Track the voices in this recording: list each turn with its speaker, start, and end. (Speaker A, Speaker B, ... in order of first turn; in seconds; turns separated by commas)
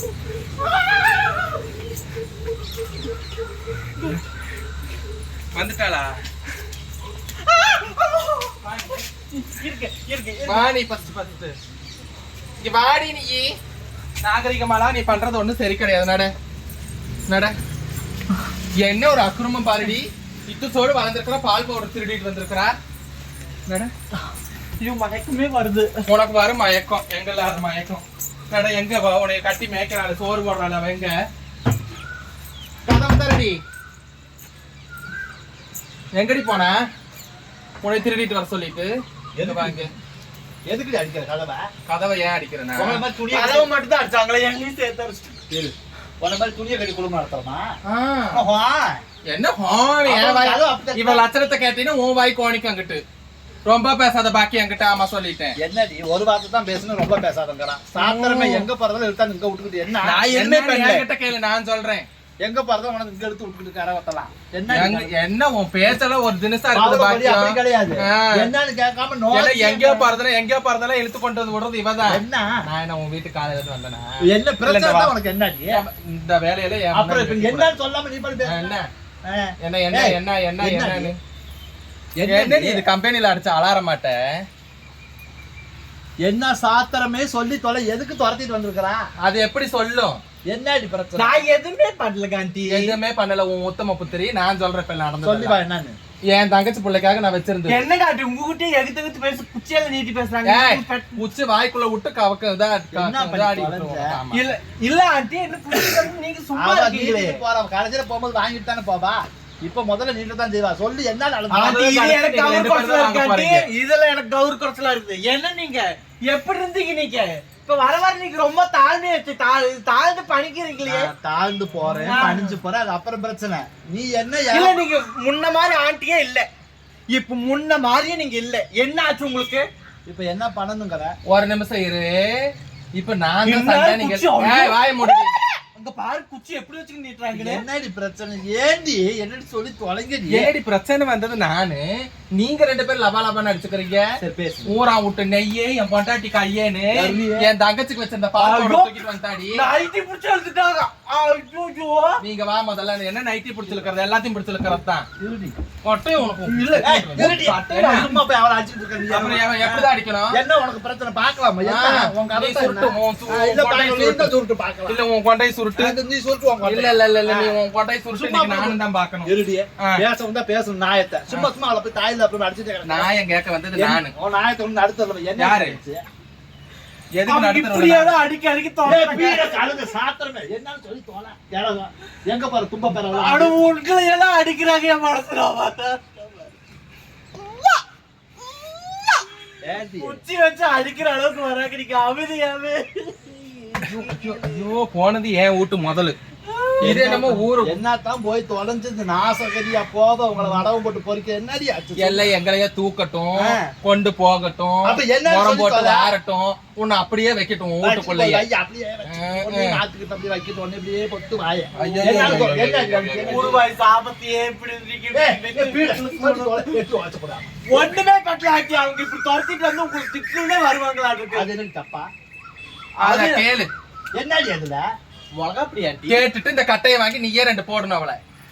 Speaker A: 5.5-6.1, Speaker B: 7.4-8.7, Speaker B: 9.3-10.7, Speaker A: 10.4-11.6, Speaker A: 12.6-13.5, Speaker A: 14.2-16.3, Speaker A: 17.3-17.5, Speaker A: 18.8-22.8, Speaker B: 24.8-26.0, Speaker A: 26.1-31.2, Speaker A: 32.9-33.6, Speaker A: 36.1-36.8, Speaker A: 37.8-39.9, Speaker C: 39.4-39.8, Speaker C: 40.7-41.7, Speaker A: 41.9-43.0, Speaker C: 42.8-43.7, Speaker B: 43.3-45.5, Speaker C: 45.5-47.7, Speaker A: 47.9-48.4, Speaker C: 48.3-49.0, Speaker A: 49.3-53.0, Speaker C: 50.1-51.2, Speaker A: 53.7-55.6, Speaker C: 55.6-60.2, Speaker A: 58.0-58.7, Speaker B: 60.0-61.0, Speaker A: 60.3-62.1, Speaker C: 62.4-65.1, Speaker A: 64.7-68.3, Speaker C: 66.7-70.1, Speaker A: 69.3-74.1, Speaker C: 72.1-72.5, Speaker C: 74.2-75.8, Speaker A: 74.6-75.1, Speaker A: 75.7-77.8, Speaker C: 76.9-78.6, Speaker A: 78.4-78.9, Speaker C: 79.3-81.1, Speaker A: 79.6-81.2, Speaker C: 82.2-82.8, Speaker A: 82.3-84.4, Speaker C: 86.2-89.0, Speaker A: 89.2-90.2, Speaker C: 90.5-91.4, Speaker B: 91.2-93.0, Speaker A: 92.7-95.6, Speaker C: 95.2-96.0, Speaker A: 96.3-97.8, Speaker B: 97.7-101.2, Speaker A: 100.5-104.5, Speaker C: 102.9-104.2, Speaker B: 104.3-107.4, Speaker C: 106.6-112.1, Speaker B: 111.5-121.1, Speaker A: 111.6-113.7, Speaker C: 120.9-124.7, Speaker B: 122.0-122.5, Speaker B: 124.5-126.5, Speaker B: 127.1-129.7, Speaker C: 130.1-131.2, Speaker A: 131.3-135.3, Speaker B: 133.4-135.2, Speaker B: 135.8-137.6, Speaker C: 137.3-140.5, Speaker A: 140.3-144.1, Speaker C: 144.2-144.7, Speaker A: 144.7-149.6, Speaker C: 146.9-147.5, Speaker B: 148.4-149.0, Speaker B: 149.5-152.2, Speaker A: 152.2-155.1, Speaker C: 155.2-155.6, Speaker A: 155.8-158.1, Speaker B: 156.3-158.2, Speaker C: 156.8-165.0, Speaker A: 159.1-160.4, Speaker A: 161.7-165.9, Speaker C: 165.8-167.6, Speaker A: 166.7-170.0, Speaker C: 168.2-173.1, Speaker A: 172.8-174.1, Speaker C: 173.8-176.0, Speaker A: 175.4-175.8, Speaker A: 177.2-178.2, Speaker B: 177.2-179.7, Speaker C: 178.8-183.6, Speaker B: 183.1-186.5, Speaker B: 187.4-187.8, Speaker B: 188.6-189.3, Speaker C: 189.6-190.2, Speaker B: 190.0-194.7, Speaker A: 193.9-196.2, Speaker B: 196.5-196.8, Speaker A: 196.8-197.8, Speaker C: 196.8-202.3, Speaker A: 202.0-208.5, Speaker C: 203.4-203.7, Speaker C: 204.8-206.2, Speaker C: 207.8-213.7, Speaker A: 209.1-209.8, Speaker A: 211.8-213.6, Speaker B: 212.0-212.6, Speaker B: 213.2-216.7, Speaker C: 215.1-217.5, Speaker B: 217.7-221.5, Speaker C: 221.3-222.1, Speaker B: 223.0-223.5, Speaker A: 223.0-223.7, Speaker C: 224.1-224.8, Speaker B: 225.3-226.2, Speaker A: 226.1-228.2